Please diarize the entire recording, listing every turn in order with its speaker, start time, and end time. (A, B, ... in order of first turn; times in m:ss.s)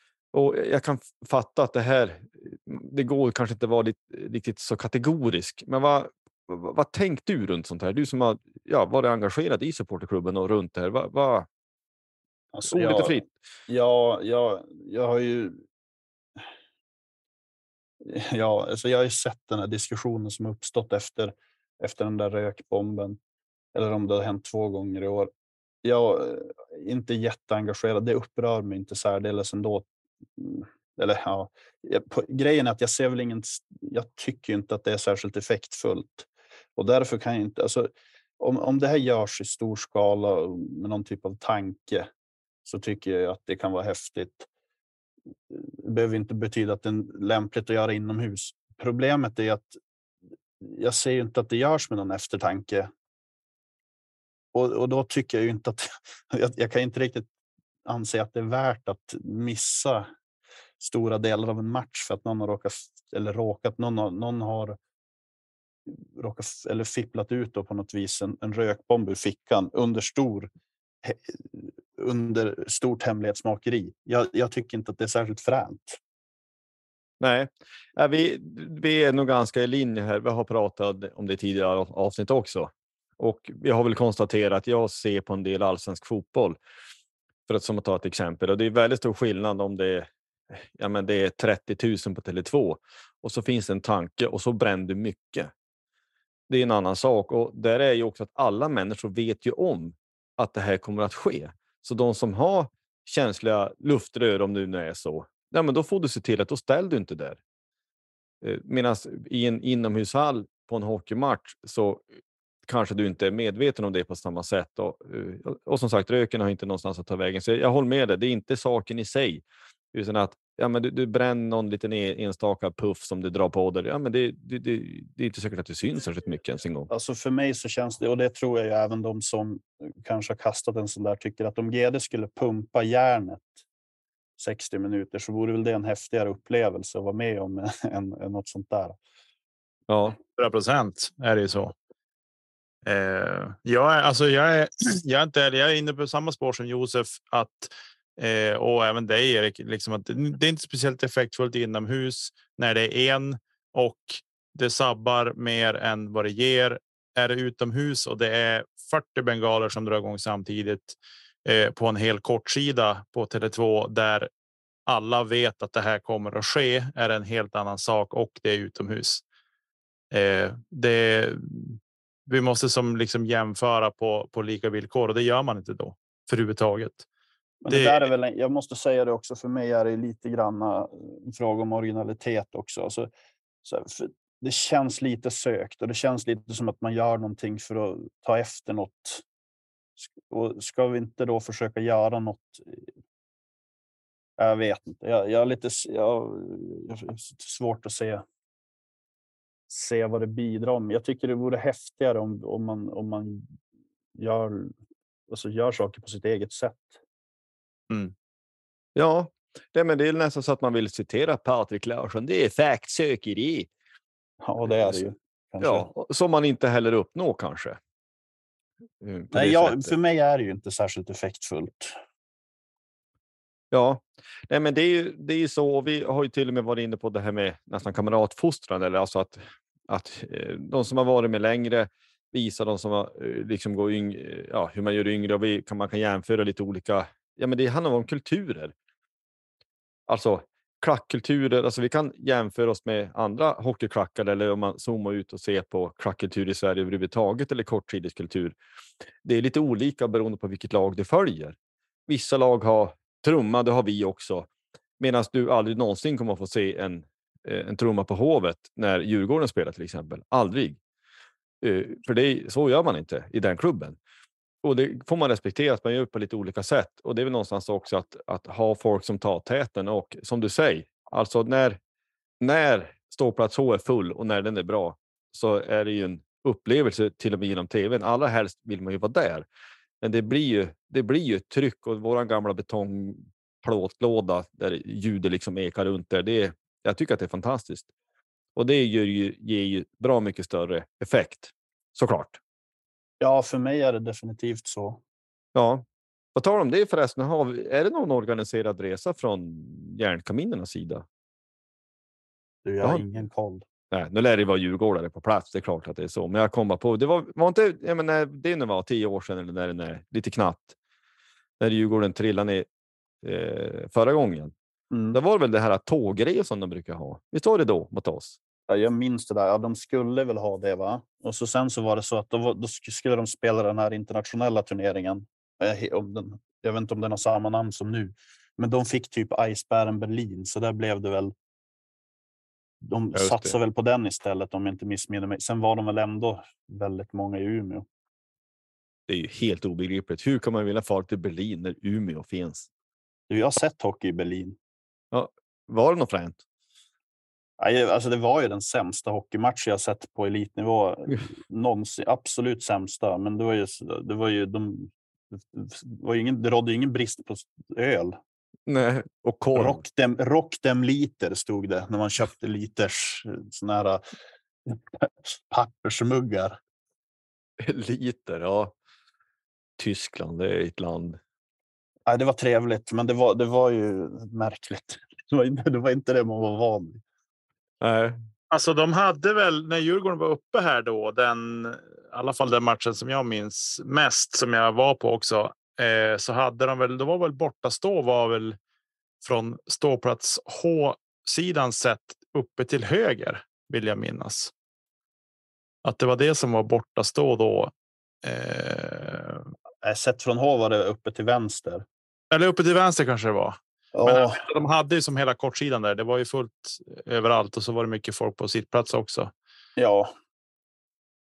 0:00.3-0:11.5 A
0:12.5-0:15.6 B
0:12.7-0:13.3 A
0:18.0-0:23.2 B
0:23.7-0:25.3 B
0:25.8-0:42.1 B
0:42.6-0:44.5 B
0:45.5-0:49.8 B
0:50.6-0:52.9 B
0:54.5-0:57.3 B
0:57.9-1:00.1 B
1:00.8-1:04.8 B
1:05.9-1:10.5 B
1:11.0-1:16.0 B
1:17.2-1:26.6 A
1:27.5-1:30.1 A
1:30.8-1:35.5 A
1:36.5-1:47.4 A
1:48.4-1:52.0 A
1:52.7-2:06.9 A
2:06.9-2:13.6 B
2:14.4-2:19.0 B
2:19.9-2:20.2 A
2:20.4-2:21.8 C
2:22.8-2:44.3 C
2:44.9-2:49.2 C
2:50.1-2:57.1 C
2:57.6-3:03.1 B
2:57.7-2:58.1 C
3:03.6-3:09.2 B
3:10.0-3:12.9 B
3:14.4-3:18.2 B
3:19.7-3:23.5 B
3:24.2-3:24.7 B
3:25.3-3:27.0 B
3:29.0-3:33.7 A
3:34.4-3:35.9 B
3:34.7-3:35.0 A
3:35.6-3:37.8 A
3:39.0-3:40.0 A
3:39.3-3:42.0 B
3:43.7-3:58.7 A
4:00.1-4:08.6 A
4:09.2-4:11.6 A
4:12.1-4:20.8 A
4:21.6-4:24.0 A
4:24.6-4:31.8 A
4:32.4-4:39.5 A
4:40.0-4:47.9 A
4:48.6-4:52.4 A
4:53.2-4:55.0 B
4:55.6-5:01.0 A
5:02.6-5:03.6 B
5:03.9-5:10.8 A
5:11.6-5:12.7 A
5:13.2-5:14.5 A
5:14.9-5:15.2 B
5:15.1-5:18.4 A
5:18.7-5:31.3 B
5:32.8-5:37.9 B
5:33.2-5:33.6 A
5:39.1-5:42.7 A
5:43.3-5:44.6 B
5:45.1-5:46.4 A
5:47.6-5:58.2 B
5:58.7-5:59.8 A
5:59.6-6:04.0 B
6:04.7-6:06.6 B
6:07.6-6:08.7 A
6:09.8-6:11.2 A
6:12.1-6:17.0 B
6:17.8-6:18.2 A
6:18.5-6:28.6 C
6:29.2-6:34.5 C
6:35.8-6:37.7 C
6:38.2-6:39.5 C
6:39.8-6:41.8 B
6:42.3-6:49.3 C
6:43.9-6:44.4 B
6:49.8-6:50.1 B